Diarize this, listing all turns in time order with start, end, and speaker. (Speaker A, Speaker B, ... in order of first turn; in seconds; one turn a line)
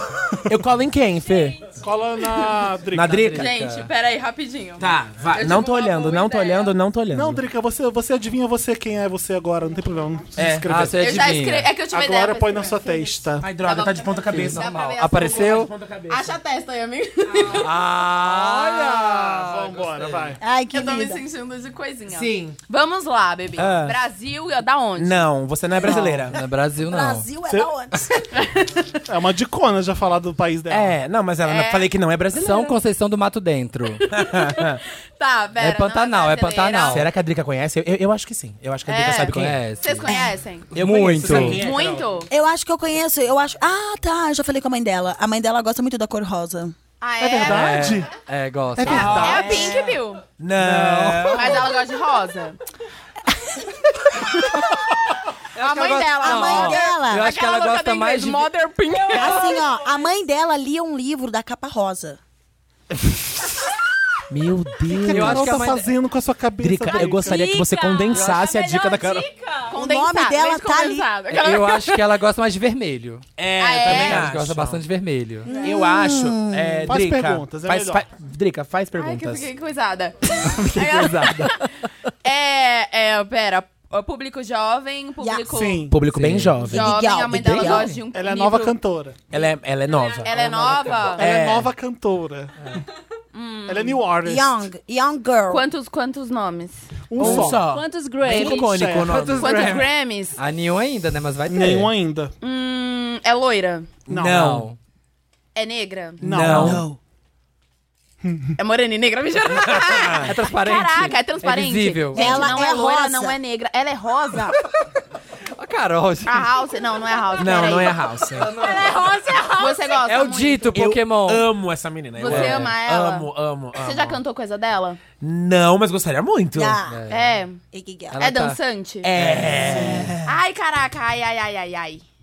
Speaker A: 0.5-1.7
Speaker B: 1.8-3.2
Speaker A: 2.9-3.5
Speaker C: 3.1-3.9
Speaker D: 3.3-6.7
Speaker A: 4.8-7.4
Speaker B: 7.1-11.0
Speaker A: 10.4-10.7
Speaker C: 10.7-11.7
Speaker D: 11.0-17.7
Speaker B: 11.9-13.5
Speaker A: 13.4-16.4
Speaker C: 14.3-15.7
Speaker C: 17.4-20.3
Speaker B: 18.1-20.4
Speaker E: 20.4-21.2
Speaker D: 20.7-25.3
Speaker A: 22.1-22.6
Speaker A: 23.6-24.0
Speaker A: 25.0-26.4
Speaker B: 25.8-26.1
Speaker C: 25.8-27.3
Speaker E: 26.9-28.1
Speaker B: 27.5-27.7
Speaker D: 28.4-28.7
Speaker B: 29.1-30.9
Speaker A: 30.7-32.8
Speaker D: 31.4-31.9
Speaker C: 32.3-34.0
Speaker D: 34.0-34.6
Speaker A: 34.1-34.8
Speaker D: 35.2-37.0
Speaker C: 35.6-37.0
Speaker A: 36.9-39.6
Speaker D: 38.9-40.7
Speaker C: 39.3-40.1
Speaker C: 40.7-41.6
Speaker A: 40.7-42.0
Speaker D: 41.3-42.3
Speaker E: 42.3-46.7
Speaker D: 47.0-48.0
Speaker B: 47.2-48.2
Speaker C: 47.4-49.6
Speaker B: 48.8-49.7
Speaker A: 48.8-51.6
Speaker D: 48.9-50.2
Speaker C: 50.6-51.7
Speaker D: 51.3-52.6
Speaker C: 55.5-58.5
Speaker D: 55.6-59.5
Speaker E: 56.0-57.3
Speaker E: 59.1-62.2
Speaker A: 64.3-65.7
Speaker B: 64.9-67.5
Speaker C: 65.1-65.9
Speaker A: 66.6-69.3
Speaker F: 67.2-69.7
Speaker C: 68.1-68.5
Speaker D: 69.7-72.0
Speaker E: 69.7-71.1
Speaker C: 71.3-73.2
Speaker A: 73.4-74.8
Speaker D: 73.6-74.3
Speaker C: 73.8-75.5
Speaker E: 75.4-76.9
Speaker A: 75.5-79.5
Speaker B: 76.9-78.0
Speaker D: 79.0-81.6
Speaker C: 80.8-81.5
Speaker D: 82.2-85.8
Speaker E: 85.2-85.5
Speaker B: 85.5-86.0
Speaker A: 85.9-86.9
Speaker C: 86.1-86.6
Speaker E: 86.7-87.9
Speaker D: 86.7-88.8
Speaker C: 87.5-88.0
Speaker B: 88.1-89.2
Speaker A: 89.3-91.7
Speaker D: 90.2-91.2
Speaker C: 90.4-91.1
Speaker B: 91.1-92.8
Speaker D: 93.3-94.0
Speaker B: 93.7-94.5
Speaker E: 94.2-95.6
Speaker D: 95.5-96.8
Speaker B: 97.1-97.7
Speaker A: 97.2-99.7
Speaker C: 97.2-97.5
Speaker F: 97.6-98.6
Speaker B: 98.2-99.2
Speaker C: 99.0-101.9
Speaker D: 99.4-100.4
Speaker B: 101.5-102.3
Speaker D: 102.4-103.9
Speaker A: 104.1-104.7
Speaker B: 104.1-104.5
Speaker C: 104.3-104.8
Speaker D: 105.5-106.2
Speaker A: 106.2-106.8
Speaker B: 106.2-106.9
Speaker C: 106.4-106.8
Speaker E: 106.5-107.0
Speaker B: 108.2-108.5
Speaker D: 108.6-114.6
Speaker A: 109.6-110.3
Speaker C: 110.2-112.5
Speaker E: 112.1-113.4
Speaker C: 115.5-116.5
Speaker D: 116.2-118.0
Speaker A: 117.3-118.5
Speaker C: 118.4-121.5
Speaker D: 118.7-120.9
Speaker F: 118.7-119.9
Speaker A: 120.7-124.2
Speaker D: 122.2-125.0
Speaker C: 122.2-122.7
Speaker A: 125.2-126.8
Speaker E: 126.5-127.0
Speaker C: 126.9-127.4
Speaker D: 127.1-127.6
Speaker E: 127.7-128.2
Speaker C: 128.1-128.6
Speaker D: 128.2-129.1
Speaker A: 129.0-130.2
Speaker B: 129.6-130.1
Speaker D: 130.2-132.0